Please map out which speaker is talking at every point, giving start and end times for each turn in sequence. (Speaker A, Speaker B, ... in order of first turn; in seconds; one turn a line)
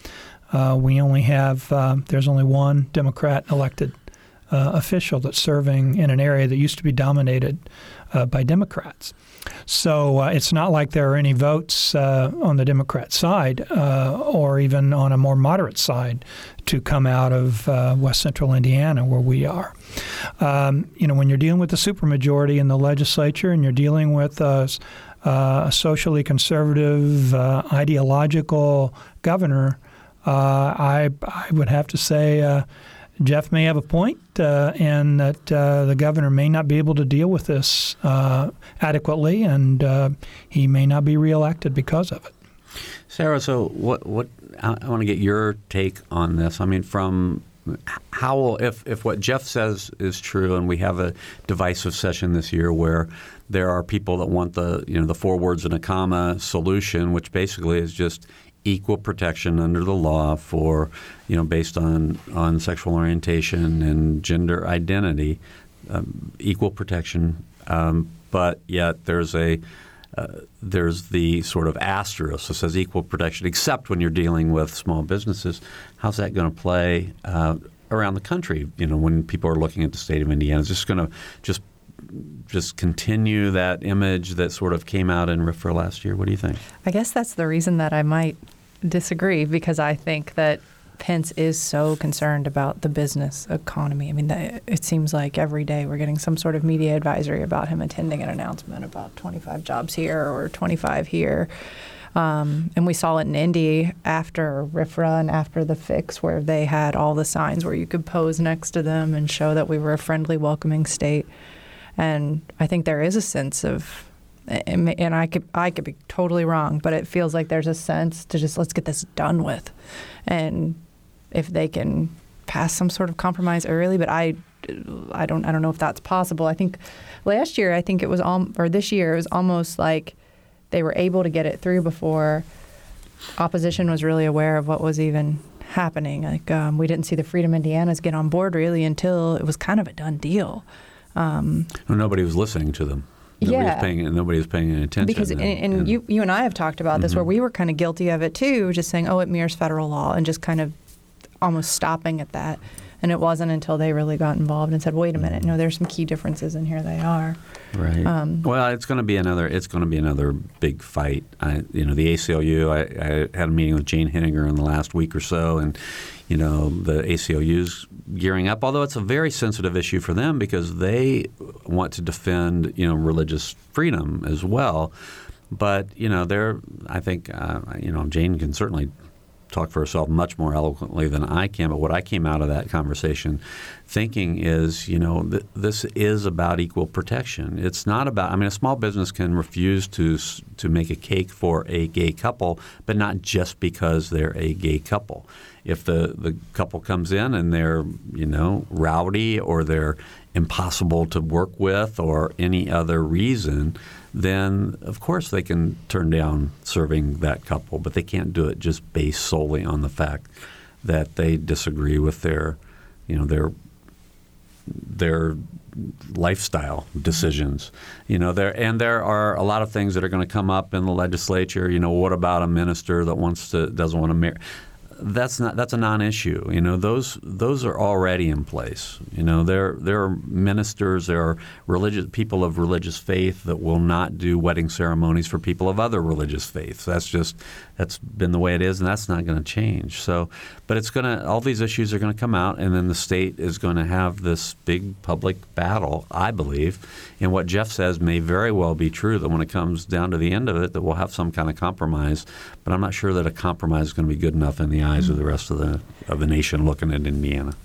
Speaker A: 0.5-3.9
Speaker A: 4.5-9.1
Speaker A: 9.7-19.8
Speaker A: 20.3-32.7
Speaker A: 33.2-42.3
Speaker B: 43.1-69.6
Speaker B: 70.1-86.6
Speaker C: 86.8-101.5
Speaker C: 102.2-111.3
Speaker C: 112.0-120.8
Speaker C: 121.3-130.2
Speaker C: 130.7-132.5
Speaker C: 133.4-141.7
Speaker B: 141.9-146.0
Speaker C: 143.4-143.9
Speaker C: 145.0-150.8
Speaker B: 147.0-147.2
Speaker C: 151.4-157.4
Speaker B: 157.7-174.9
Speaker C: 158.0-158.4
Speaker B: 175.5-178.9
Speaker B: 179.5-210.3
Speaker B: 210.8-213.5
Speaker B: 214.7-224.4
Speaker B: 225.0-257.6